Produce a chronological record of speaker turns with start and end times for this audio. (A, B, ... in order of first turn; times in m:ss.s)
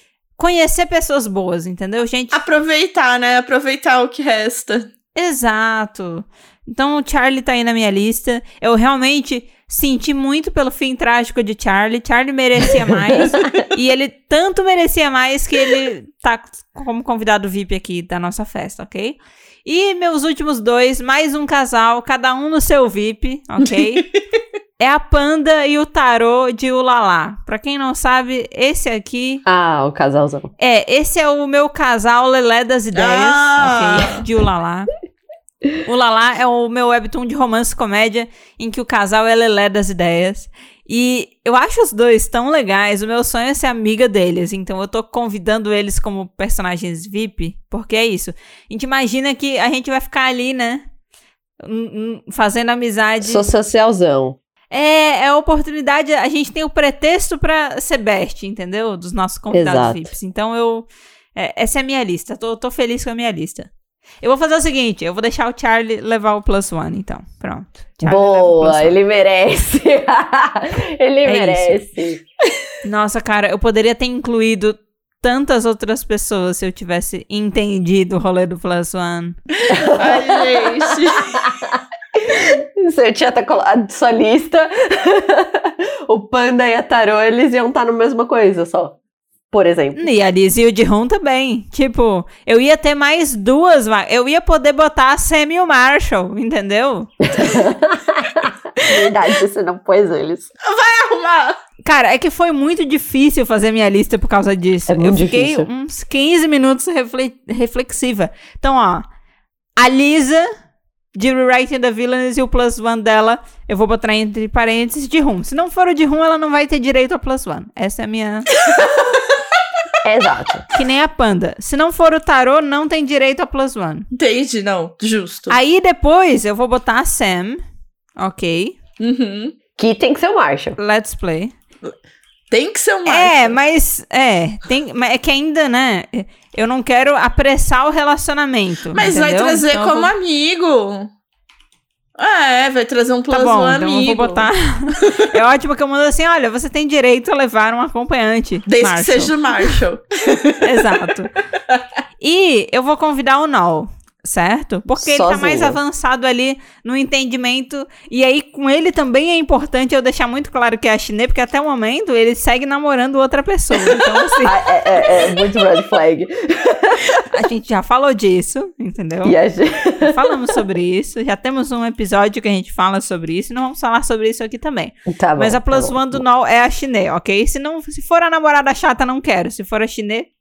0:00.4-0:02.4 A
0:02.3-0:04.9 B
0:05.1-0:24.1 A
0:24.8-0:29.4 A
0:29.4-0:30.5 C
0:30.6-0:34.9 A
0:32.9-0:34.2 B
0:35.8-0:50.8 A
0:51.6-0:53.5 A
0:53.2-0:54.4 C
0:54.7-1:03.7 A
0:59.5-1:00.1 C
1:04.2-1:09.0 A
1:08.0-1:12.2 C
1:11.2-1:11.8 A
1:12.8-1:19.4 A
1:19.7-1:21.5 B
1:19.7-1:29.0 C
1:29.5-1:30.0 C
1:29.9-1:37.1 A
1:37.2-1:40.5 C
1:40.6-1:41.6 B
1:41.8-1:49.0 A
1:44.9-1:45.7 C
1:49.8-1:50.5 A
1:51.1-1:58.5 A
1:58.7-1:59.1 B
2:00.0-2:00.6 C
2:00.7-2:04.1 A
2:04.1-2:05.6 B
2:05.5-2:07.6 A
2:08.2-2:08.8 A
2:09.0-2:09.5 B
2:09.8-2:10.8 C
2:10.8-2:11.5 A
2:12.5-2:13.6 B
2:13.0-2:20.1 A
2:18.9-2:21.1 B
2:22.2-2:25.2 B
2:23.3-2:29.7 A
2:28.7-2:30.8 B
2:30.6-2:31.3 A
2:32.2-2:44.5 A
2:34.9-2:35.8 C
2:44.4-2:47.2 C
2:47.3-2:49.3 A
2:49.2-2:50.6 C
2:50.0-3:00.3 A
2:55.1-2:56.2 C